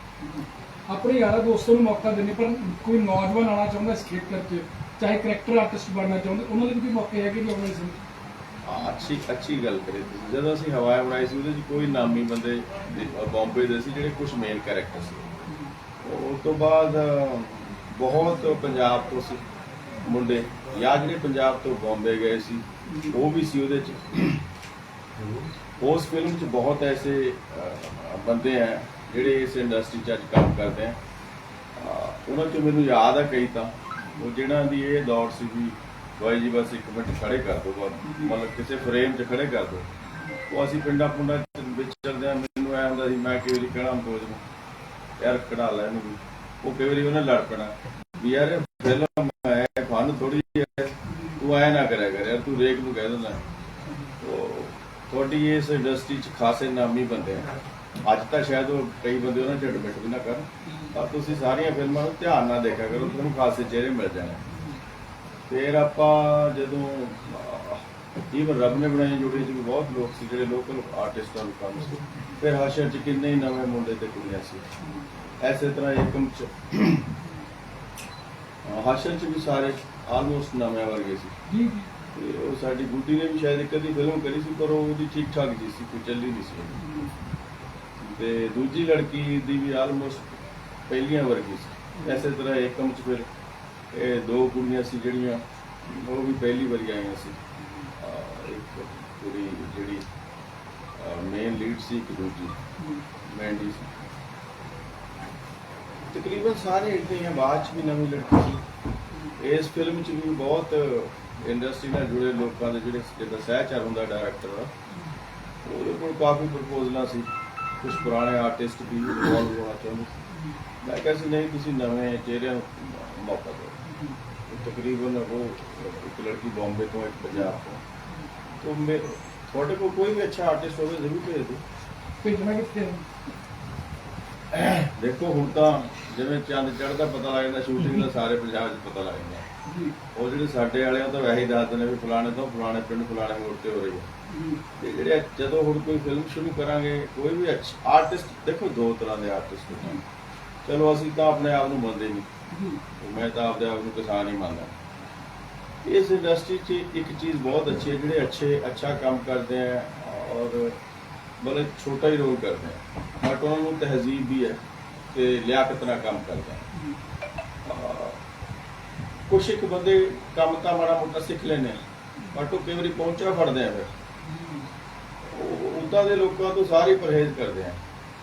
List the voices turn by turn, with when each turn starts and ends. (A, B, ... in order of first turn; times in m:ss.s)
0:00.2-0:08.0 A
0:08.6-0:15.4 B
0:16.0-0:19.4 B
0:20.0-0:24.4 B
0:22.9-0:23.2 A
0:25.8-0:31.0 B
0:31.8-0:39.9 B
0:38.0-0:38.3 A
0:40.5-0:44.4 B
0:45.2-0:53.4 B
0:51.1-0:51.4 A
0:54.2-0:57.5 B
0:58.0-1:04.4 B
1:05.5-1:14.6 B
1:15.4-1:17.1 B
1:18.6-1:21.4 B
1:21.5-1:21.9 A
1:22.1-1:26.8 B
1:26.8-1:27.1 A
1:28.0-1:30.3 B
1:30.9-1:33.3 B
1:32.0-1:32.2 A
1:33.9-1:37.4 B
1:38.0-1:40.0 B
1:41.0-1:42.6 B
1:43.3-1:43.9 B
1:46.1-1:48.6 B
1:49.4-1:54.7 B
1:55.6-2:00.1 B
2:00.8-2:03.8 B
2:03.9-2:04.2 A
2:04.5-2:07.8 B
2:08.6-2:11.6 B
2:12.2-2:13.1 A
2:14.5-2:19.4 B
2:19.6-2:20.0 A
2:20.1-2:24.1 B
2:24.3-2:24.6 A
2:24.8-2:30.0 B
2:30.6-2:32.3 B
2:32.5-2:32.8 A
2:33.0-2:34.7 B
2:35.8-2:40.8 B
2:41.4-2:44.6 B
2:45.1-2:46.6 B
2:47.6-2:48.2 B
2:49.3-2:51.8 B
2:52.3-2:53.9 B
2:54.3-2:54.7 A
2:55.3-2:57.8 B